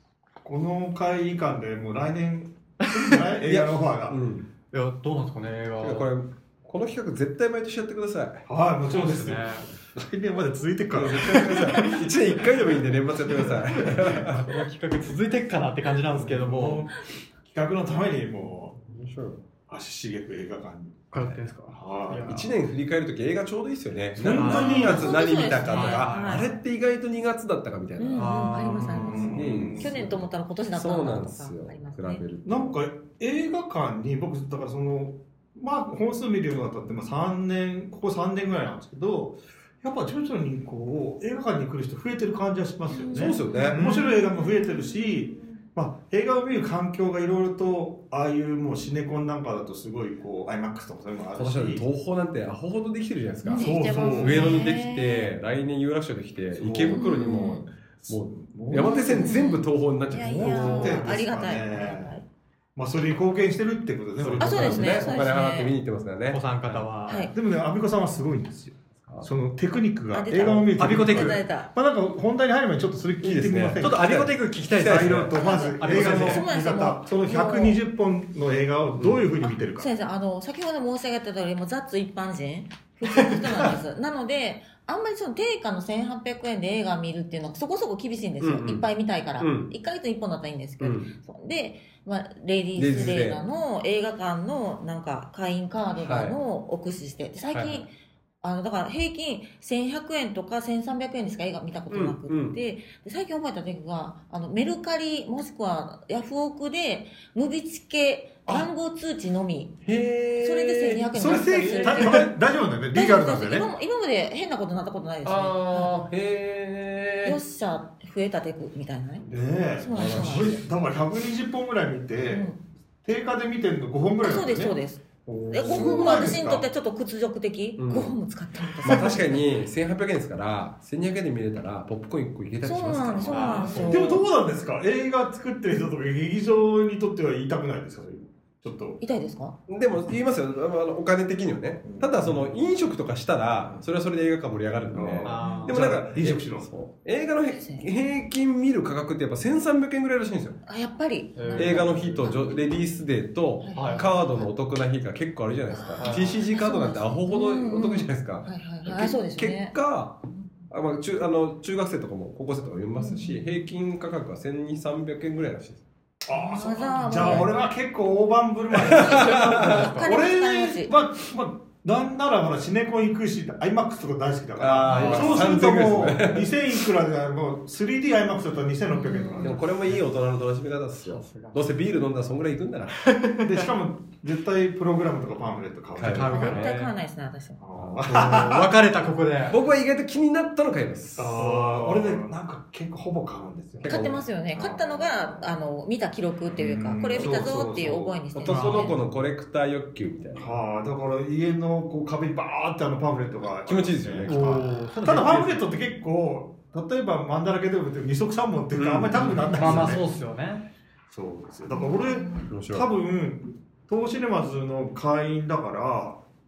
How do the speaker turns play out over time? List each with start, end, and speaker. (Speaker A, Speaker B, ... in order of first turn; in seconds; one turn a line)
Speaker A: 0.4-4.2
Speaker B: 2.8-3.2
Speaker C: 3.5-4.5
Speaker B: 4.7-6.1
Speaker C: 5.8-8.4
Speaker A: 8.5-11.9
Speaker B: 8.9-9.7
Speaker C: 10.9-14.5
Speaker B: 11.4-12.1
Speaker B: 13.3-16.9
Speaker A: 16.1-18.8
Speaker C: 18.9-19.4
Speaker A: 19.7-22.4
Speaker B: 21.1-22.5
Speaker C: 22.2-28.6
Speaker A: 24.1-25.3
Speaker B: 24.3-25.1
Speaker D: 24.4-26.6
Speaker B: 25.6-26.5
Speaker D: 28.0-32.2
Speaker B: 28.1-29.3
Speaker A: 28.6-30.2
Speaker C: 29.3-32.8
Speaker A: 32.5-51.9
Speaker D: 42.9-45.4
Speaker C: 43.1-43.9
Speaker C: 51.4-61.1
Speaker D: 53.4-55.3
Speaker A: 53.6-54.6
Speaker A: 56.5-57.5
Speaker D: 56.9-57.7
Speaker A: 58.0-59.4
Speaker D: 58.8-62.2
Speaker A: 60.2-62.2
Speaker A: 62.8-65.2
Speaker C: 64.2-66.9
Speaker D: 64.4-65.8
Speaker B: 66.3-67.3
Speaker D: 67.1-67.3
Speaker A: 67.3-74.2
Speaker C: 69.0-69.3
Speaker D: 70.1-71.7
Speaker B: 70.8-71.4
Speaker C: 73.2-75.3
Speaker B: 73.8-76.5
Speaker A: 74.8-79.9
Speaker D: 75.3-77.8
Speaker D: 79.5-97.9
Speaker B: 83.1-83.4
Speaker C: 88.4-88.8
Speaker C: 89.4-89.7
Speaker C: 90.8-91.1
Speaker C: 92.8-93.4
Speaker C: 96.0-96.3
Speaker C: 97.5-97.9
Speaker D: 98.4-112.3
Speaker C: 101.9-102.6
Speaker C: 109.8-112.2
Speaker A: 111.1-113.7
Speaker D: 112.9-116.1
Speaker C: 115.2-117.4
Speaker D: 117.2-119.3
Speaker A: 119.2-122.5
Speaker D: 119.8-120.6
Speaker C: 119.9-120.6
Speaker D: 122.2-122.6
Speaker A: 123.0-126.7
Speaker D: 124.2-129.5
Speaker C: 125.7-126.3
Speaker C: 127.8-128.2
Speaker C: 128.8-133.9
Speaker D: 132.6-134.3
Speaker B: 133.3-134.1
Speaker A: 133.8-139.0
Speaker D: 139.0-139.6
Speaker C: 139.7-150.6
Speaker A: 141.8-142.5
Speaker A: 144.9-146.7
Speaker B: 145.2-146.0
Speaker D: 145.4-145.7
Speaker D: 147.5-147.9
Speaker D: 150.7-152.6
Speaker B: 151.4-152.3
Speaker C: 151.6-165.8
Speaker D: 153.6-154.5
Speaker B: 153.7-154.1
Speaker D: 155.7-159.8
Speaker B: 156.0-156.4
Speaker D: 163.0-163.5
Speaker A: 166.3-179.6
Speaker D: 166.3-167.6
Speaker C: 168.8-169.9
Speaker D: 169.2-170.9
Speaker B: 169.4-170.1
Speaker C: 174.6-176.5
Speaker B: 174.8-175.6
Speaker D: 178.9-179.6
Speaker C: 179.4-183.1
Speaker B: 181.0-181.6
Speaker B: 183.0-183.7
Speaker A: 183.4-186.7
Speaker C: 186.0-186.7
Speaker B: 186.0-186.9
Speaker D: 186.2-187.6
Speaker A: 187.6-188.8
Speaker C: 187.8-188.5
Speaker B: 188.1-189.6
Speaker C: 189.5-191.4
Speaker A: 191.2-195.5
Speaker B: 191.4-192.1
Speaker C: 193.8-194.2
Speaker D: 193.8-199.0
Speaker A: 196.6-198.2
Speaker C: 198.3-200.6
Speaker B: 198.5-198.9
Speaker A: 200.4-210.1
Speaker C: 203.7-204.7
Speaker B: 204.3-205.7
Speaker C: 208.8-210.0
Speaker B: 209.5-210.7
Speaker A: 211.1-216.2
Speaker D: 211.7-212.5
Speaker C: 212.5-212.9